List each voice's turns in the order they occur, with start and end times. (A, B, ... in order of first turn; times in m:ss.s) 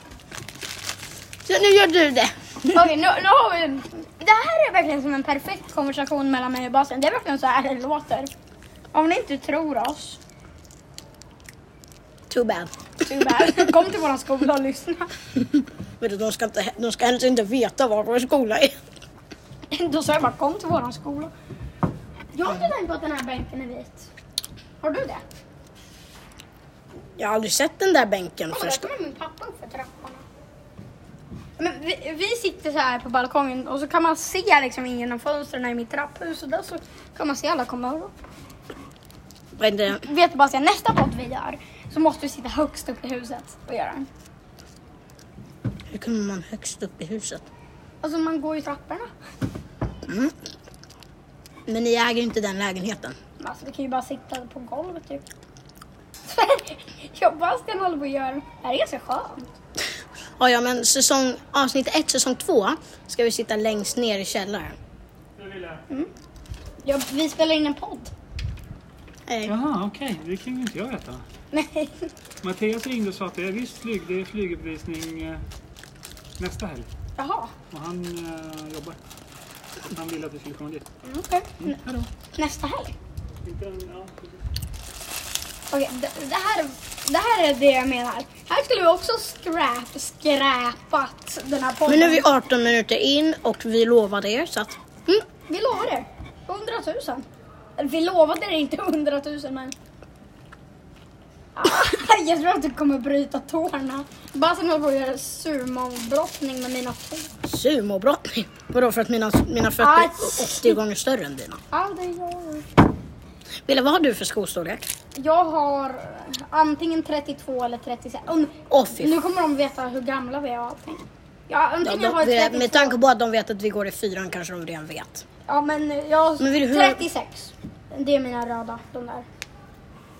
0:01.4-0:02.9 A
0:02.7-0:08.3 B
0:08.9-0:10.2 B
0:12.3-0:13.7 A
0:13.0-0:15.1 B
0:16.0-0:18.8 A
0:19.7-0:21.3 B
0:22.3-0:24.1 B
0:24.8-0:25.2 B
0:27.2-0:28.9 A
0:28.5-0:30.2 B
0:31.6-0:38.1 B
0:39.6-0:40.0 A
0:39.9-0:44.1 B
0:45.9-0:47.4 A
0:48.0-0:49.1 B
0:50.0-0:50.3 A
0:51.7-0:53.2 A
0:53.4-0:55.2 B
0:56.2-0:59.5 B
1:00.4-1:04.8 A
1:05.4-1:05.8 C
1:06.8-1:08.1 B
1:09.3-1:09.5 A
1:09.5-1:11.2 C
1:11.5-1:12.1 B
1:12.4-1:15.4 C
1:16.4-1:16.9 C
1:17.2-1:17.5 B
1:17.7-1:19.0 C
1:19.9-1:20.8 C
1:21.0-1:21.8 B
1:21.6-1:22.1 C
1:22.3-1:22.9 B
1:23.4-1:24.4 C
1:25.7-1:32.2 B
1:31.9-1:34.8 A
1:35.1-1:37.2 B
1:37.8-1:39.7 B
1:41.5-1:47.3 B
1:47.4-1:51.6 A
1:49.8-1:50.8 B
1:51.7-1:52.7 B
1:53.6-1:54.9 A
1:55.1-2:03.0 B
1:58.7-1:59.1 A
2:01.8-2:05.2 A
2:05.5-2:09.3 B
2:06.4-2:07.0 A